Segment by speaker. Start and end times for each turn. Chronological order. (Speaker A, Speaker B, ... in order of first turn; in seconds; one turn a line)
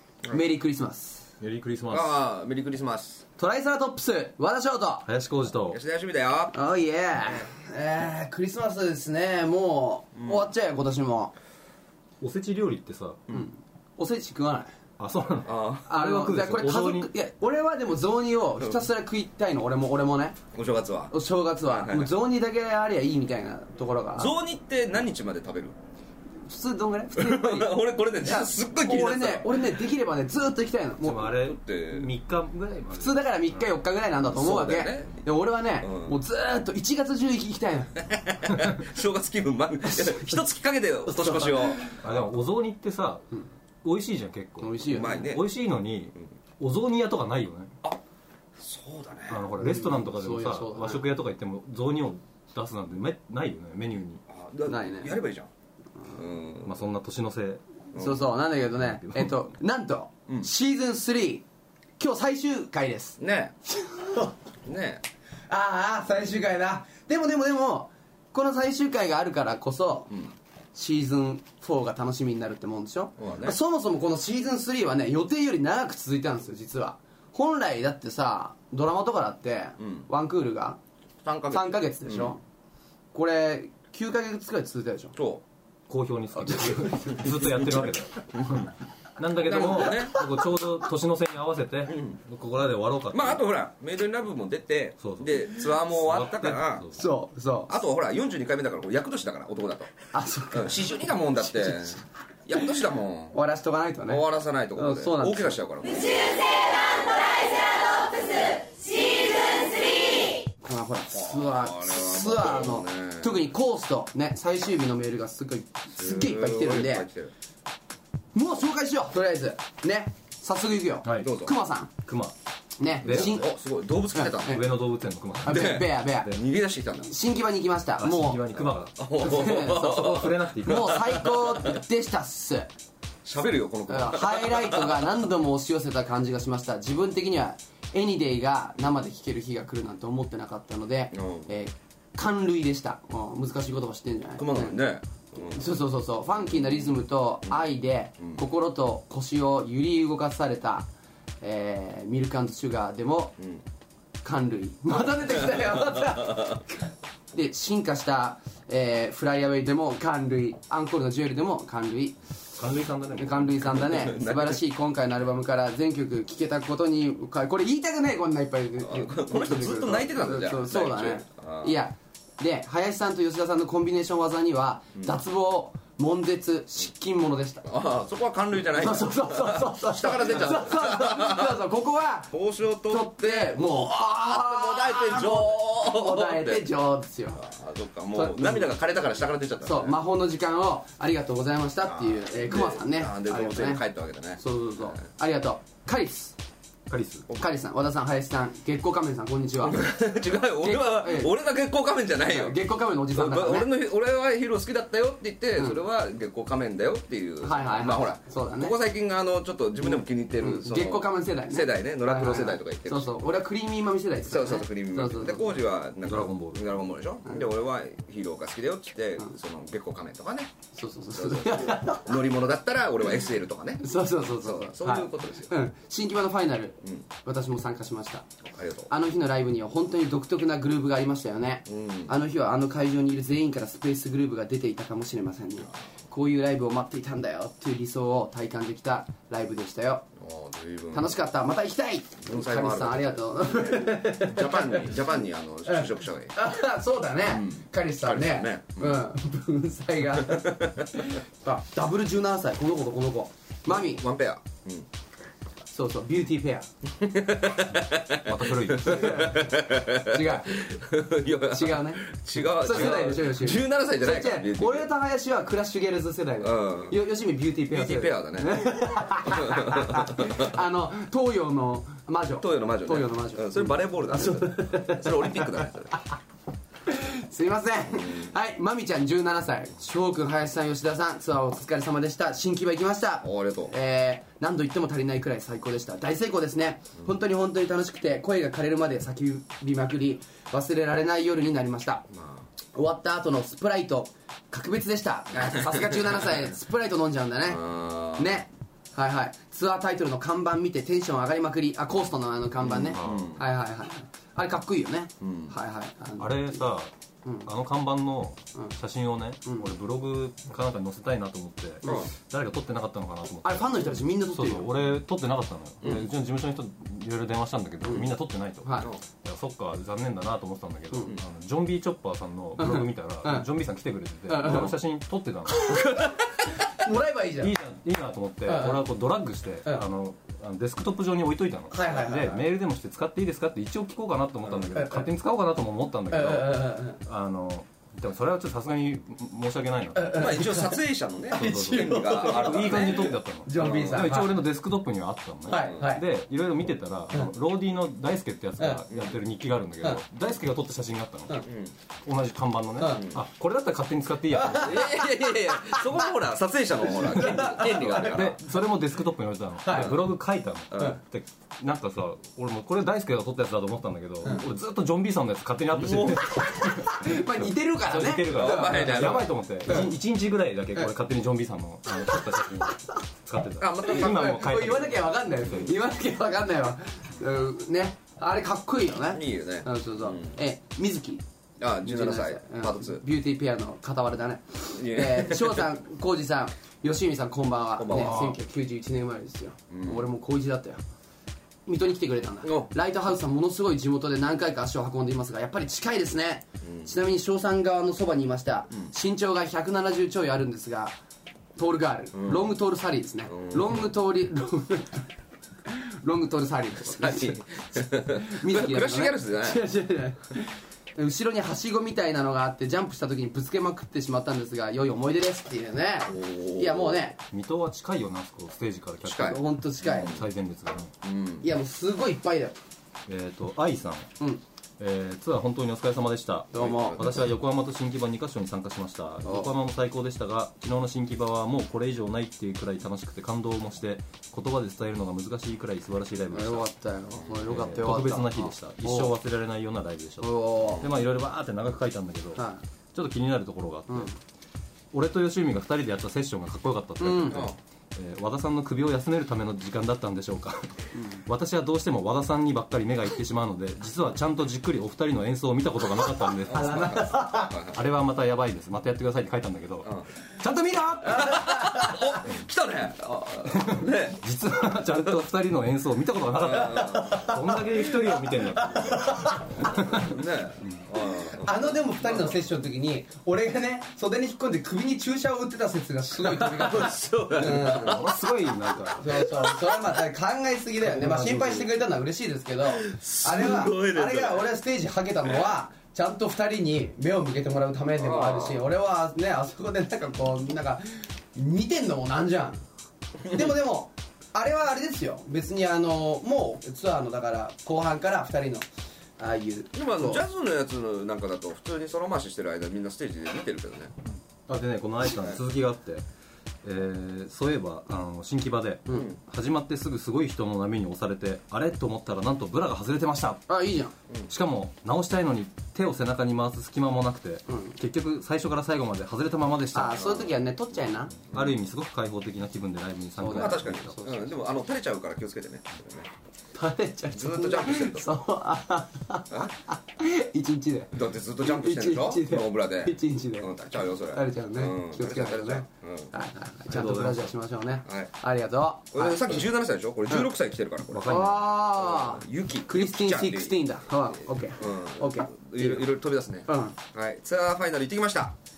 Speaker A: 0.3-1.3
Speaker B: 1.4-2.1
Speaker C: 1.9-3.2
Speaker A: 3.4-5.1
Speaker B: 5.1-5.8
Speaker C: 5.7-6.6
Speaker A: 6.5-11.3
Speaker C: 7.2-7.5
Speaker C: 10.2-10.5
Speaker B: 12.2-13.2
Speaker A: 13.3-14.7
Speaker B: 15.0-17.1
Speaker C: 15.4-15.9
Speaker A: 15.9-20.4
Speaker C: 20.5-21.1
Speaker A: 21.1-24.4
Speaker C: 21.6-22.1
Speaker C: 24.2-25.8
Speaker A: 26.5-31.4
Speaker C: 27.1-29.7
Speaker B: 31.0-33.6
Speaker C: 31.4-32.1
Speaker A: 32.9-38.0
Speaker C: 34.3-35.2
Speaker C: 35.8-36.1
Speaker C: 38.0-42.2
Speaker A: 40.0-40.3
Speaker A: 41.1-42.0
Speaker B: 42.0-43.3
Speaker B: 43.8-47.7
Speaker A: 44.6-45.3
Speaker C: 44.9-45.5
Speaker C: 48.6-49.4
Speaker B: 49.3-54.2
Speaker A: 49.6-51.1
Speaker C: 54.3-55.5
Speaker A: 54.7-55.1
Speaker C: 56.1-56.8
Speaker B: 56.6-57.6
Speaker C: 57.9-58.3
Speaker A: 57.9-61.5
Speaker B: 58.5-59.5
Speaker A: 62.0-63.2
Speaker C: 63.2-63.5
Speaker A: 63.7-64.3
Speaker C: 64.7-65.0
Speaker A: 65.5-70.1
Speaker A: 70.8-80.8
Speaker C: 73.2-73.6
Speaker C: 79.8-80.1
Speaker C: 81.2-82.4
Speaker A: 81.5-82.4
Speaker A: 83.1-85.2
Speaker C: 85.2-85.4
Speaker B: 85.9-93.4
Speaker A: 86.4-87.4
Speaker C: 87.6-88.5
Speaker C: 89.4-90.2
Speaker A: 89.8-90.3
Speaker C: 91.9-92.2
Speaker C: 93.1-96.9
Speaker B: 95.0-97.0
Speaker A: 96.9-97.7
Speaker C: 97.7-99.9
Speaker A: 100.1-102.0
Speaker C: 100.5-103.4
Speaker A: 103.3-104.2
Speaker C: 104.1-106.3
Speaker A: 104.8-105.6
Speaker A: 110.6-117.1
Speaker C: 111.1-113.4
Speaker C: 116.0-117.3
Speaker A: 118.3-121.9
Speaker B: 121.0-121.3
Speaker C: 121.2-121.5
Speaker B: 122.0-122.3
Speaker A: 122.8-123.5
Speaker C: 123.0-124.7
Speaker B: 123.0-123.4
Speaker A: 124.1-124.7
Speaker B: 124.5-125.9
Speaker A: 125.4-126.3
Speaker C: 125.5-127.1
Speaker A: 127.1-128.6
Speaker B: 128.0-131.2
Speaker C: 129.0-131.8
Speaker A: 129.2-132.7
Speaker C: 133.2-135.1
Speaker A: 133.9-144.8
Speaker C: 141.1-141.5
Speaker C: 144.4-145.8
Speaker A: 145.4-150.9
Speaker C: 146.5-147.6
Speaker A: 151.4-153.4
Speaker A: 154.2-162.2
Speaker C: 155.5-156.6
Speaker B: 162.6-163.9
Speaker A: 163.2-177.7
Speaker C: 163.7-164.6
Speaker C: 168.8-171.8
Speaker C: 177.7-181.6
Speaker A: 178.8-182.3
Speaker C: 182.3-186.7
Speaker A: 182.9-187.4
Speaker C: 187.4-190.0
Speaker A: 188.1-188.7
Speaker A: 189.6-193.8
Speaker C: 191.8-195.0
Speaker A: 194.4-196.4
Speaker B: 196.9-197.2
Speaker A: 197.3-199.9
Speaker C: 199.6-213.2
Speaker A: 200.6-201.3
Speaker A: 202.2-203.7
Speaker A: 207.4-208.8
Speaker A: 209.8-215.5
Speaker C: 214.3-220.5
Speaker B: 216.1-216.7
Speaker A: 220.8-222.1
Speaker C: 221.1-225.6
Speaker A: 223.8-228.3
Speaker C: 228.4-228.9
Speaker A: 228.9-240.1
Speaker C: 231.7-232.1
Speaker C: 240.2-241.1
Speaker A: 240.9-244.9
Speaker C: 242.3-243.2
Speaker C: 243.8-246.3
Speaker A: 245.7-254.0
Speaker C: 247.2-249.1
Speaker C: 250.1-250.9
Speaker C: 253.7-254.9
Speaker A: 255.7-256.7
Speaker C: 257.0-264.9
Speaker B: 258.2-259.4
Speaker A: 258.8-260.7
Speaker A: 261.5-275.6
Speaker B: 262.7-263.2
Speaker C: 266.4-267.0
Speaker C: 267.7-268.6
Speaker C: 269.2-270.5
Speaker C: 272.4-275.9
Speaker A: 276.9-292.1
Speaker C: 277.9-278.3
Speaker C: 283.2-283.7
Speaker C: 292.1-292.5
Speaker A: 292.7-306.6
Speaker C: 295.5-295.9
Speaker C: 297.5-298.4
Speaker C: 302.6-303.4
Speaker B: 302.9-303.4
Speaker C: 305.2-305.6
Speaker B: 306.2-306.9
Speaker B: 307.4-325.9
Speaker A: 311.8-312.1
Speaker A: 313.4-314.7
Speaker A: 318.6-318.9
Speaker A: 322.6-323.5
Speaker A: 324.3-324.7
Speaker A: 325.5-326.1
Speaker A: 326.7-327.5
Speaker B: 327.4-340.5
Speaker A: 328.5-328.9
Speaker A: 331.7-332.4
Speaker A: 334.7-335.1
Speaker A: 336.1-337.0
Speaker A: 339.9-344.4
Speaker C: 340.1-344.1
Speaker B: 341.3-351.4
Speaker A: 345.5-346.0
Speaker A: 348.6-348.8
Speaker C: 348.9-349.2
Speaker C: 351.4-351.7
Speaker B: 352.1-354.9
Speaker A: 352.8-353.1
Speaker A: 354.4-355.8
Speaker C: 354.6-358.4
Speaker A: 356.9-358.6
Speaker B: 357.3-375.7
Speaker A: 359.6-360.0
Speaker C: 359.7-360.0
Speaker C: 360.7-361.0
Speaker C: 365.7-366.3
Speaker A: 366.2-369.9
Speaker C: 368.2-369.8
Speaker C: 373.6-374.4
Speaker A: 373.9-381.2
Speaker C: 379.1-380.4
Speaker C: 381.6-383.0
Speaker A: 381.8-390.8
Speaker C: 384.7-385.7
Speaker C: 387.8-388.4
Speaker B: 388.0-388.3
Speaker C: 389.7-390.1
Speaker A: 391.7-400.9
Speaker C: 392.4-392.7
Speaker C: 396.6-396.9
Speaker A: 401.6-405.1
Speaker C: 402.1-402.5
Speaker C: 403.3-403.8
Speaker A: 405.7-407.4
Speaker C: 406.9-409.6
Speaker A: 408.0-417.2
Speaker C: 416.1-417.1
Speaker B: 417.3-420.9
Speaker C: 419.0-420.2
Speaker A: 419.2-420.2
Speaker C: 421.0-421.5
Speaker A: 421.4-422.6
Speaker B: 423.1-424.1
Speaker B: 424.8-436.7
Speaker A: 426.5-427.2
Speaker C: 426.5-427.2
Speaker A: 429.2-429.5
Speaker A: 436.3-439.1
Speaker C: 437.1-437.6
Speaker B: 437.5-444.1
Speaker A: 440.2-440.9
Speaker A: 442.4-442.6
Speaker A: 443.9-444.1
Speaker B: 444.9-461.7
Speaker A: 447.0-447.5
Speaker C: 447.3-447.6
Speaker A: 450.9-451.2
Speaker C: 456.5-457.8
Speaker A: 456.5-457.6
Speaker A: 461.1-462.2
Speaker C: 461.1-464.2
Speaker B: 463.5-470.8
Speaker C: 466.4-467.3
Speaker A: 466.7-469.9
Speaker C: 469.6-472.4
Speaker A: 471.4-478.1
Speaker C: 476.3-478.2
Speaker B: 477.4-479.1
Speaker A: 478.9-492.6
Speaker C: 479.3-479.8
Speaker B: 480.9-481.7
Speaker C: 482.7-484.5
Speaker C: 488.0-488.7
Speaker A: 493.2-498.7
Speaker A: 499.2-500.2
Speaker C: 499.7-503.9
Speaker B: 504.5-506.0
Speaker C: 505.1-505.4
Speaker B: 506.6-513.5
Speaker C: 508.9-509.2
Speaker A: 513.5-513.9
Speaker B: 514.3-520.3
Speaker A: 517.5-517.7
Speaker A: 519.7-521.1
Speaker B: 521.2-524.0
Speaker A: 523.2-524.3
Speaker C: 523.3-526.1
Speaker A: 526.5-533.5
Speaker C: 527.1-528.1
Speaker C: 530.9-536.1
Speaker A: 534.1-539.4
Speaker B: 536.7-537.3
Speaker C: 537.9-538.1
Speaker C: 538.9-541.2
Speaker B: 540.9-541.5
Speaker A: 541.0-545.9
Speaker C: 541.8-543.6
Speaker C: 544.6-548.4
Speaker A: 546.5-546.8